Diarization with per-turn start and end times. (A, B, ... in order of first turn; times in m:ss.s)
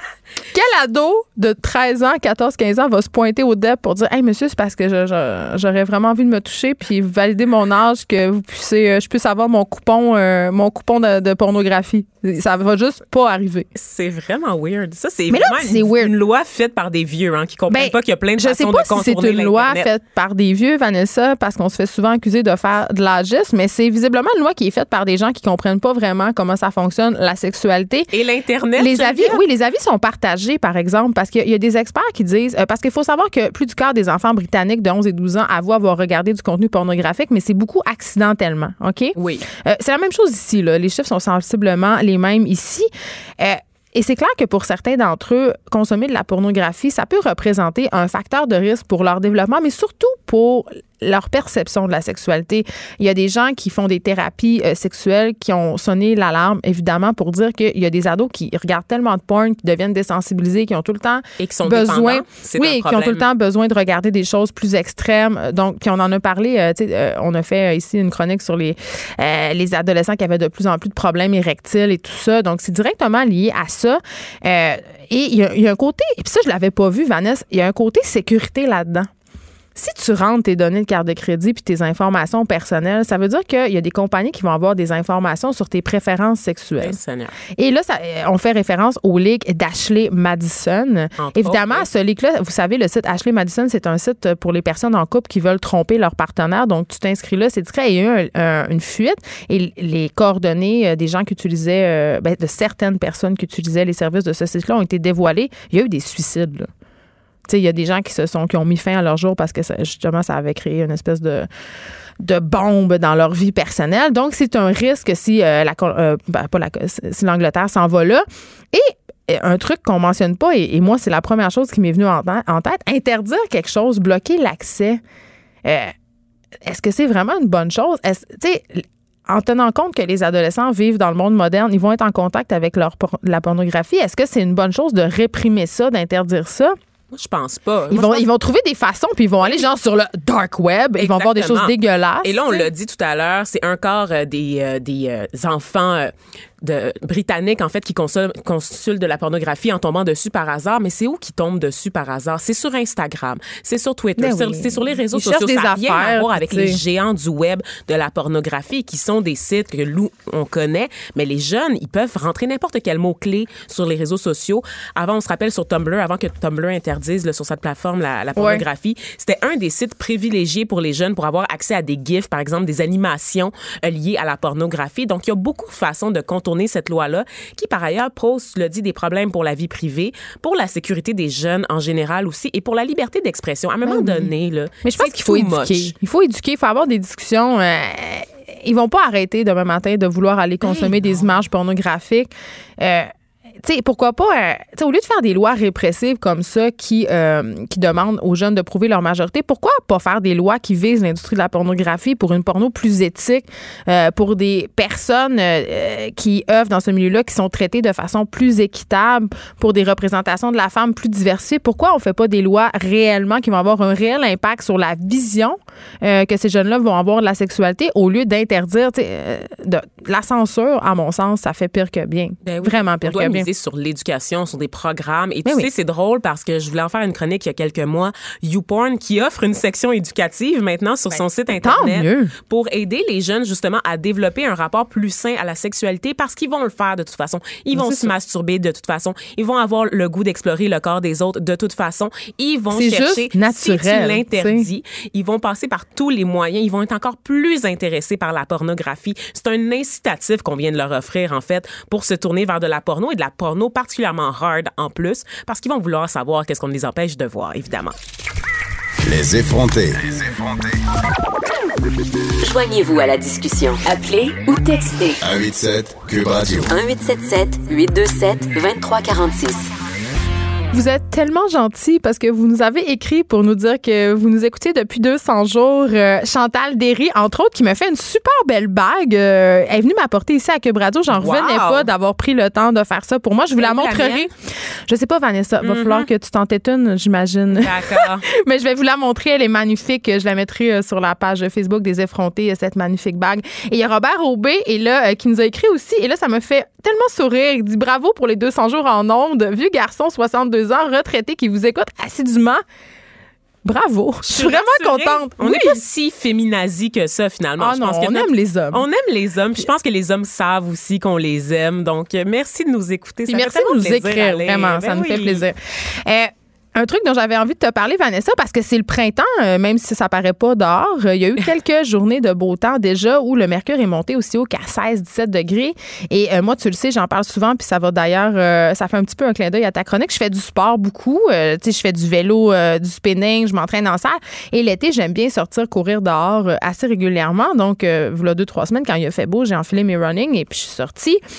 0:00.5-0:13.7 A
0:13.7-0:19.9 B
0:15.3-0:16.1 A
0:17.7-0:28.1 A
0:28.1-0:29.4 B
0:28.8-1:19.1 A
0:39.2-0:39.4 B
1:01.4-1:03.2 B
1:19.8-1:27.0 A
1:26.8-1:27.3 B
1:27.6-1:46.7 A
1:31.2-1:31.9 B
1:47.5-1:51.5 A
1:52.2-2:05.0 A
2:05.6-2:05.9 A
2:06.6-2:16.8 A
2:17.1-2:18.2 B
2:17.9-2:22.7 A
2:21.0-3:05.9 B
2:34.2-2:36.8 A
2:48.4-2:48.6 A
3:03.8-3:04.3 A
3:04.8-3:13.1 A
3:10.6-3:11.2 B
3:13.6-3:43.5 A
3:42.4-4:17.9 B
3:51.6-3:52.3 A
3:57.7-3:58.1 A
4:02.7-4:04.7 A
4:19.0-4:20.8 C
4:22.4-4:25.2 D
4:25.2-4:26.7 C
4:26.7-4:29.7 D
4:30.7-5:02.6 A
4:41.1-4:41.9 B
4:43.6-4:44.3 B
4:45.6-4:46.1 B
4:47.6-4:48.2 B
5:03.6-5:05.8 A
5:04.3-5:15.4 B
5:07.6-5:08.8 A
5:13.3-5:41.2 A